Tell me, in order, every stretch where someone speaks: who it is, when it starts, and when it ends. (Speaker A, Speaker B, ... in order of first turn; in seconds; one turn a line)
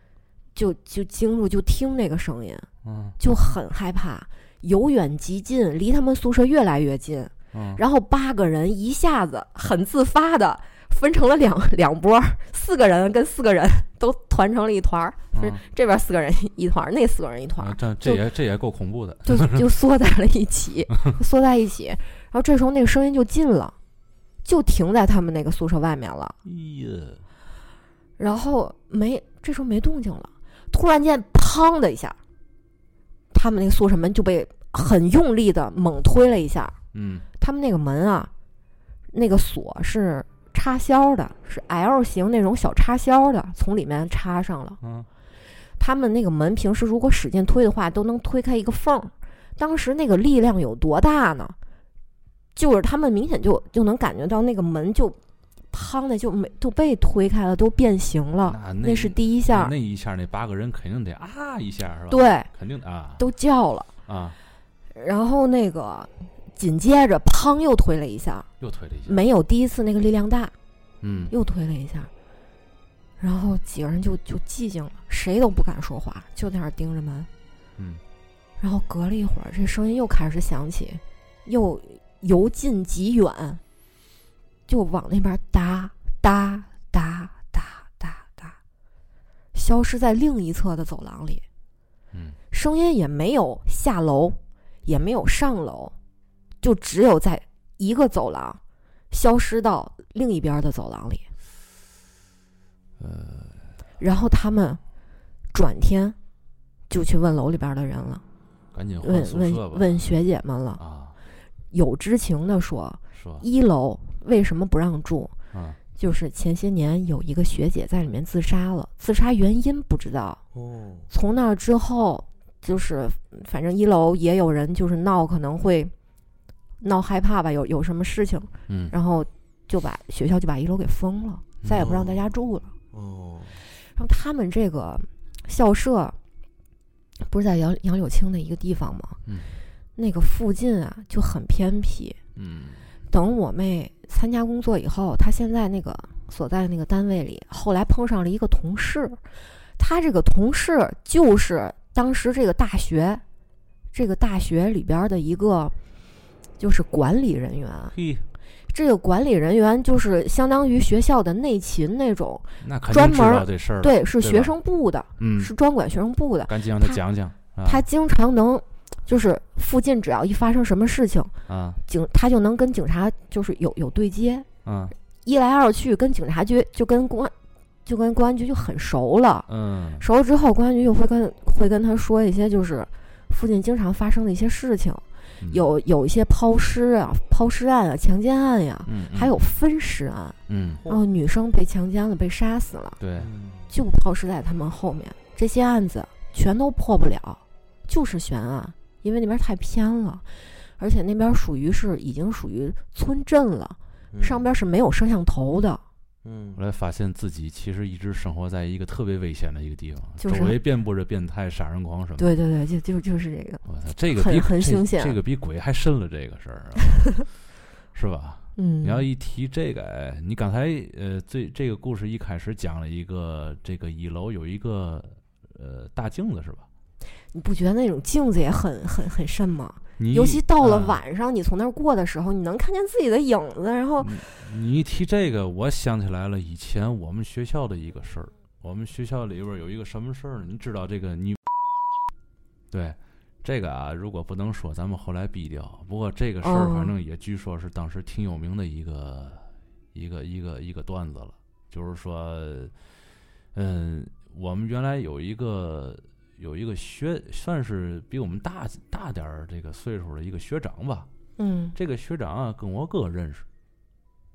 Speaker A: 0.5-2.7
Speaker B: 2.8-3.2
Speaker A: 3.2-18.2
Speaker B: 7.5-7.8
Speaker B: 15.3-15.6
Speaker B: 17.6-19.6
Speaker A: 19.2-23.8
Speaker A: 24.4-26.4
Speaker B: 26.4-27.2
Speaker A: 28.2-32.2
Speaker A: 33.3-36.7
Speaker B: 36.9-37.3
Speaker A: 37.4-38.3
Speaker A: 39.1-44.8
Speaker B: 44.8-45.1
Speaker A: 45.8-51.5
Speaker A: 52.5-55.2
Speaker A: 55.7-59.7
Speaker B: 58.4-63.2
Speaker A: 62.1-62.5
Speaker A: 63.2-63.9
Speaker B: 64.0-64.4
Speaker A: 64.9-68.5
Speaker B: 68.6-69.2
Speaker A: 69.0-70.5
Speaker B: 71.0-71.3
Speaker A: 71.3-72.1
Speaker A: 73.2-77.3
Speaker B: 77.8-78.0
Speaker A: 78.6-83.6
Speaker A: 84.7-88.6
Speaker A: 89.5-91.4
Speaker B: 92.1-92.4
Speaker A: 92.5-95.9
Speaker A: 96.6-98.6
Speaker A: 99.1-101.3
Speaker B: 103.0-103.7
Speaker A: 104.0-104.8
Speaker A: 105.5-106.2
Speaker A: 106.9-108.2
Speaker B: 108.7-110.1
Speaker A: 109.0-110.8
Speaker B: 110.8-111.2
Speaker A: 111.7-115.3
Speaker B: 113.1-113.4
Speaker B: 115.5-115.8
Speaker A: 115.9-120.4
Speaker C: 120.5-121.1
Speaker A: 121.1-125.9
Speaker A: 126.8-132.7
Speaker B: 128.7-128.9
Speaker B: 131.6-131.9
Speaker C: 131.8-132.2
Speaker C: 132.9-133.6
Speaker A: 133.9-136.2
Speaker A: 137.2-139.2
Speaker B: 139.2-139.6
Speaker A: 139.9-142.2
Speaker B: 142.3-142.9
Speaker A: 143.1-149.2
Speaker A: 149.8-153.2
Speaker A: 153.9-155.7
Speaker A: 156.6-157.9
Speaker B: 157.9-158.3
Speaker A: 158.7-167.0
Speaker B: 162.6-164.5
Speaker B: 165.2-165.5
Speaker B: 166.5-167.8
Speaker A: 167.6-171.3
Speaker B: 171.5-171.8
Speaker A: 171.9-174.5
Speaker B: 174.6-174.9
Speaker A: 175.2-177.3
Speaker A: 177.8-179.5
Speaker B: 179.5-180.0
Speaker A: 180.0-190.4
Speaker B: 185.4-185.7
Speaker B: 188.8-189.3
Speaker B: 190.5-190.8
Speaker A: 190.9-193.0
Speaker B: 193.0-193.3
Speaker C: 193.2-193.7
Speaker A: 193.7-205.8
Speaker C: 204.1-204.4
Speaker C: 206.2-206.6
Speaker B: 206.6-212.4
Speaker A: 210.2-210.6
Speaker A: 212.2-215.2
Speaker B: 213.6-217.3
Speaker B: 217.9-226.7
Speaker A: 218.6-219.1
Speaker A: 227.3-234.2
Speaker B: 230.0-231.0
Speaker B: 234.0-241.4
Speaker B: 242.7-252.7
Speaker A: 246.4-246.9
Speaker B: 253.5-261.1
Speaker A: 261.4-261.8
Speaker B: 261.7-263.4